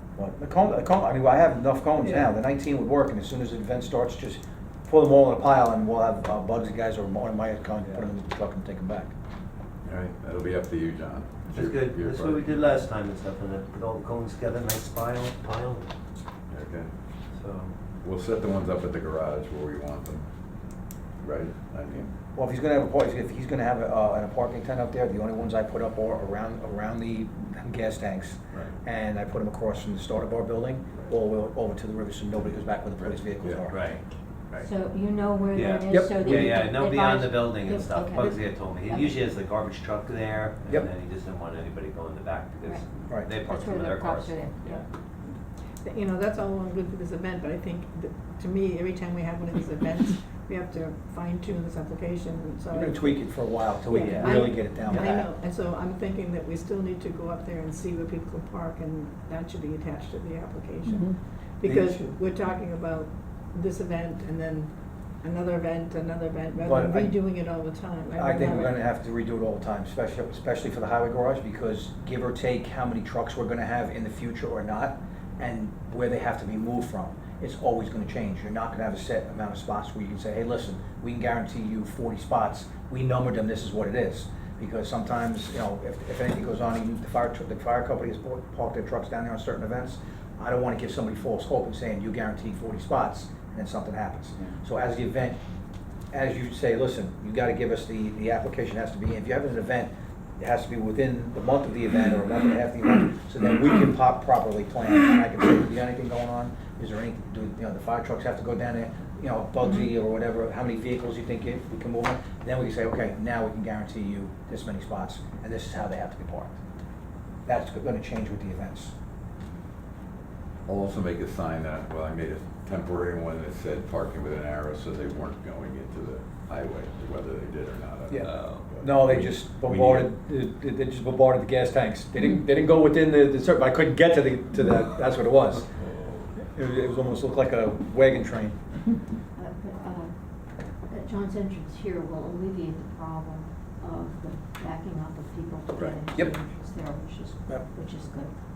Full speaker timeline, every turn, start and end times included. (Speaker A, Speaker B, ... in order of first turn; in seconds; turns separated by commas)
Speaker A: 0.1-9.1, Speaker B: 9.8-12.5, Speaker C: 11.5-15.9, Speaker B: 16.5-16.9, Speaker C: 17.3-17.8, Speaker B: 18.0-20.3, Speaker B: 21.2-22.1, Speaker A: 22.4-33.9, Speaker B: 33.4-33.6, Speaker C: 33.7-34.6, Speaker D: 34.6-39.2, Speaker C: 35.5-44.4, Speaker A: 35.9-36.6, Speaker D: 43.3-44.8, Speaker E: 45.8-64.7, Speaker A: 52.7-55.3, Speaker C: 54.0-54.4, Speaker A: 61.6-62.1, Speaker E: 65.2-68.8, Speaker A: 66.6-67.2, Speaker A: 68.2-95.4, Speaker A: 96.1-116.6, Speaker A: 117.5-118.9, Speaker B: 120.7-130.1, Speaker A: 128.1-135.7, Speaker C: 128.2-128.7, Speaker C: 135.5-136.3, Speaker A: 136.4-138.6, Speaker D: 139.4-140.1, Speaker D: 140.9-148.3